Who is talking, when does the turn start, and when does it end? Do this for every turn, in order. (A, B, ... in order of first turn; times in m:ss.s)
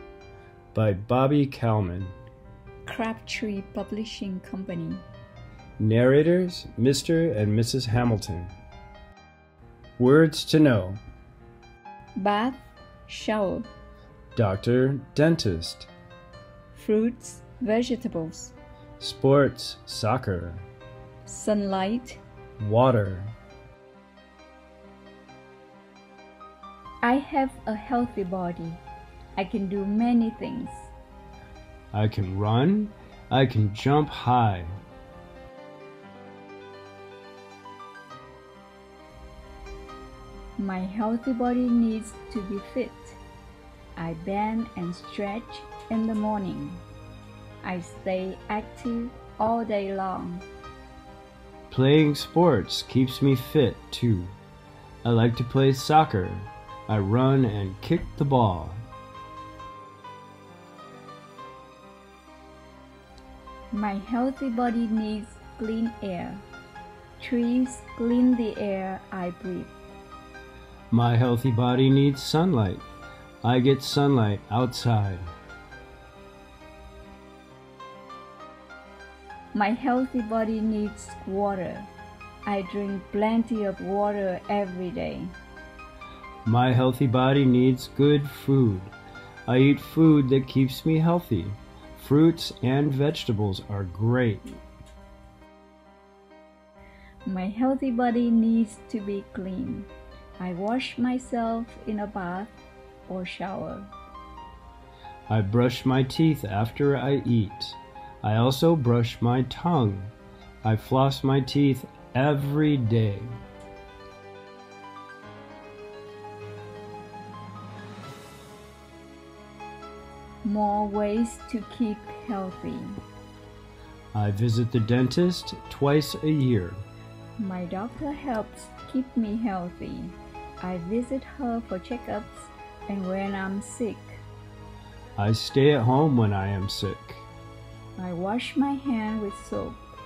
0:00.7-0:02.2 A
0:02.8-0:05.0 B
0:05.8-0:08.5 A
0:10.0-0:11.0 A
0:12.2-0:13.7 B
0:14.3-0:15.9 A
0:16.7-0:18.5 B
0:19.0-0:20.7 A
0:21.2-0:22.2 B
0:22.6-0:23.3 A
0:27.0-0:28.8 B
0:29.4-0:30.9 B
0:31.9-0:34.8 A
0:40.6-0:43.2 B
0:44.0-0:46.8 B
0:47.6-0:50.4 B
0:51.7-0:54.3 A
0:55.0-0:58.8 A
1:03.7-1:06.4 B
1:07.2-1:09.7 B
1:10.9-1:12.9 A
1:13.4-1:15.3 A
1:19.5-1:21.9 B
1:22.4-1:25.3 B
1:26.4-1:28.9 A
1:29.5-1:34.6 A
1:37.2-1:39.9 B
1:40.4-1:42.5 B
1:43.1-1:43.9 B
1:45.3-1:53.4 A
2:00.4-2:03.0 B
2:04.1-2:06.8 A
2:07.4-2:14.2 B
2:15.2-2:17.3 A
2:18.0-2:19.8 B